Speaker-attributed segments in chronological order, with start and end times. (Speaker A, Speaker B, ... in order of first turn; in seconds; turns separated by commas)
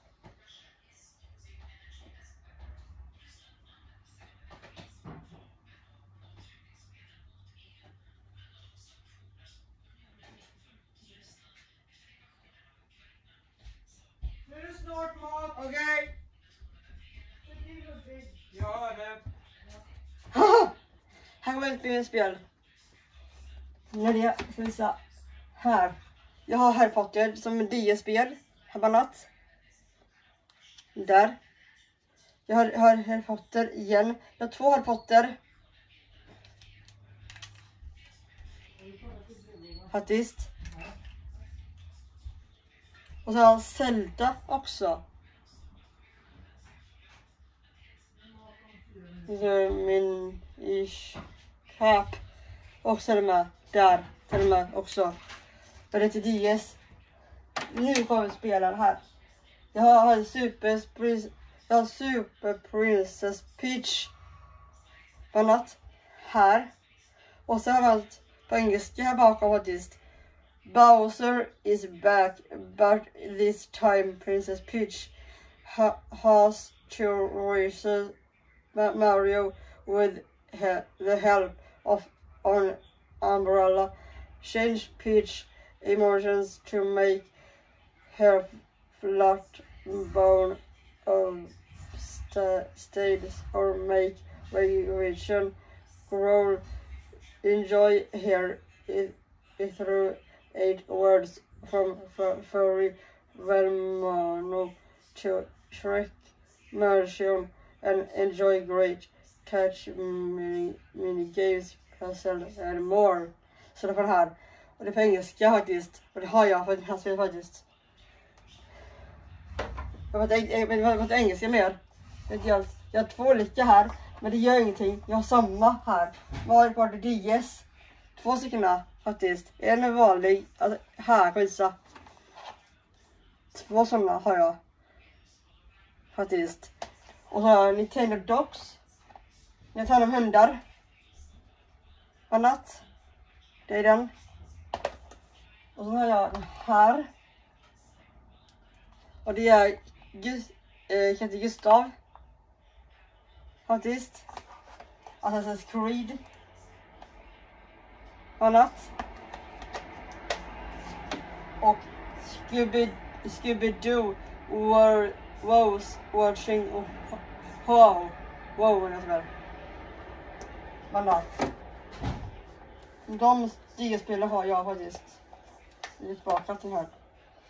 Speaker A: 14.5-15.5, Speaker B: 15.4-16.1, Speaker B: 17.5-18.3, Speaker A: 18.5-19.2, Speaker B: 20.3-20.7, Speaker B: 21.4-22.4, Speaker B: 23.9-25.0, Speaker B: 25.5-29.3, Speaker B: 30.9-31.4, Speaker B: 32.5-35.4, Speaker A: 38.8-39.9, Speaker B: 39.9-40.5, Speaker B: 43.2-45.0, Speaker A: 48.4-49.3, Speaker B: 49.2-52.2, Speaker B: 52.8-55.2, Speaker B: 55.9-56.8, Speaker B: 57.7-59.0, Speaker B: 59.7-64.1, Speaker B: 65.3-66.7, Speaker B: 67.5-70.0, Speaker B: 70.6-75.1, Speaker B: 75.6-78.1, Speaker B: 78.7-87.3, Speaker B: 88.1-95.5, Speaker B: 96.1-96.6, Speaker B: 97.4-106.1, Speaker B: 106.7-117.6, Speaker B: 120.1-131.7, Speaker B: 133.5-134.6, Speaker B: 136.1-136.7, Speaker B: 137.3-138.8, Speaker B: 139.7-140.6, Speaker B: 142.3-142.8, Speaker B: 143.7-144.1, Speaker B: 145.8-147.1, Speaker B: 149.2-151.9, Speaker B: 153.7-154.2, Speaker B: 155.2-156.2, Speaker B: 158.4-158.9, Speaker B: 161.6-169.3, Speaker B: 170.9-171.3, Speaker B: 173.1-175.2, Speaker B: 176.0-176.9